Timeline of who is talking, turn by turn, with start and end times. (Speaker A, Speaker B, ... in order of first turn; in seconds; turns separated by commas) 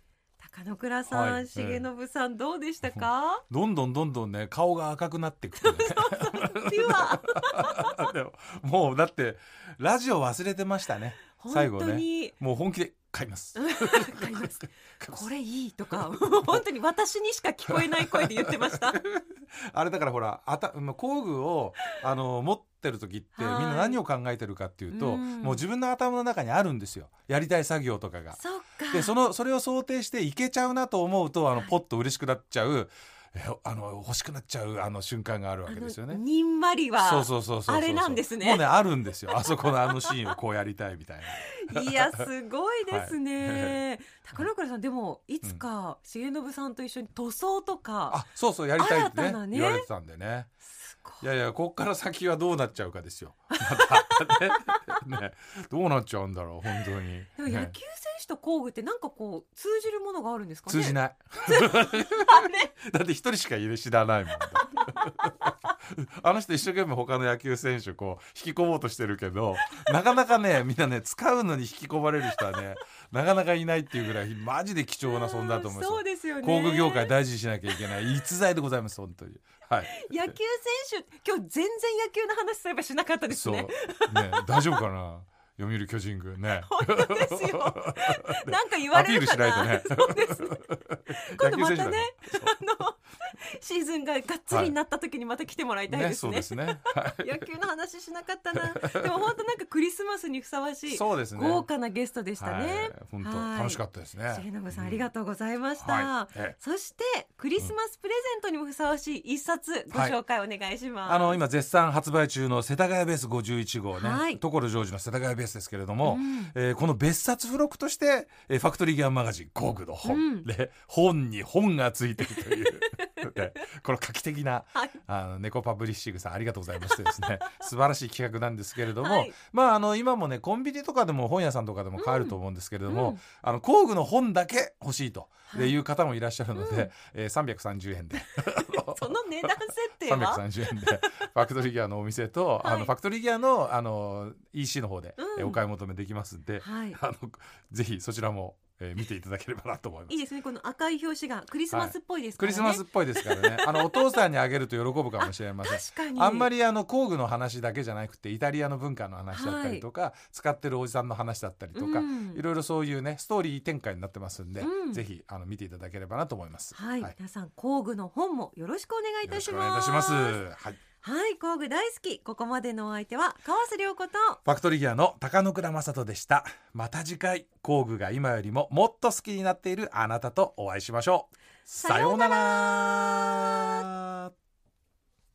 Speaker A: 0.4-3.4, Speaker B: 1.1-1.9, Speaker B: 2.9-15.3, Speaker A: 5.6-8.1, Speaker A: 11.4-12.3, Speaker A: 13.6-19.0, Speaker B: 16.2-16.6, Speaker B: 17.7-36.2, Speaker A: 23.4-24.0, Speaker A: 24.9-25.6, Speaker A: 28.4-29.2, Speaker A: 35.7-38.6, Speaker B: 37.0-42.1, Speaker A: 39.4-40.3, Speaker A: 41.3-48.2, Speaker B: 42.9-43.8, Speaker B: 48.1-50.5, Speaker A: 48.8-49.9, Speaker A: 50.7-51.3, Speaker B: 51.2-57.8, Speaker A: 53.5-55.0, Speaker A: 57.4-62.7, Speaker B: 60.7-80.3, Speaker A: 64.7-65.7, Speaker A: 69.6-69.9, Speaker A: 75.1-77.1, Speaker A: 79.9-84.8, Speaker B: 83.3-92.6, Speaker A: 86.7-111.4, Speaker B: 94.5-94.8, Speaker B: 95.9-97.5, Speaker B: 98.8-99.1, Speaker B: 100.9-101.7, Speaker B: 102.4-105.1, Speaker B: 105.8-106.6, Speaker B: 109.9-110.2, Speaker B: 111.1-150.2, Speaker A: 113.9-114.4, Speaker A: 116.0-116.5, Speaker A: 120.0-120.5, Speaker A: 122.3-123.4, Speaker A: 126.8-127.6, Speaker A: 129.0-129.3, Speaker A: 132.0-132.4, Speaker A: 132.9-133.2, Speaker A: 135.5-135.8, Speaker A: 136.6-136.9, Speaker A: 138.9-141.0, Speaker A: 142.6-142.9, Speaker A: 145.2-145.6, Speaker A: 146.6-147.0, Speaker A: 150.1-154.2, Speaker B: 151.7-167.1, Speaker A: 155.2-156.5, Speaker A: 159.3-159.8, Speaker A: 161.8-162.4, Speaker A: 164.6-165.0, Speaker A: 166.7-170.4, Speaker B: 169.3-170.8, Speaker A: 171.0-174.4, Speaker B: 174.4-184.3, Speaker A: 181.8-183.9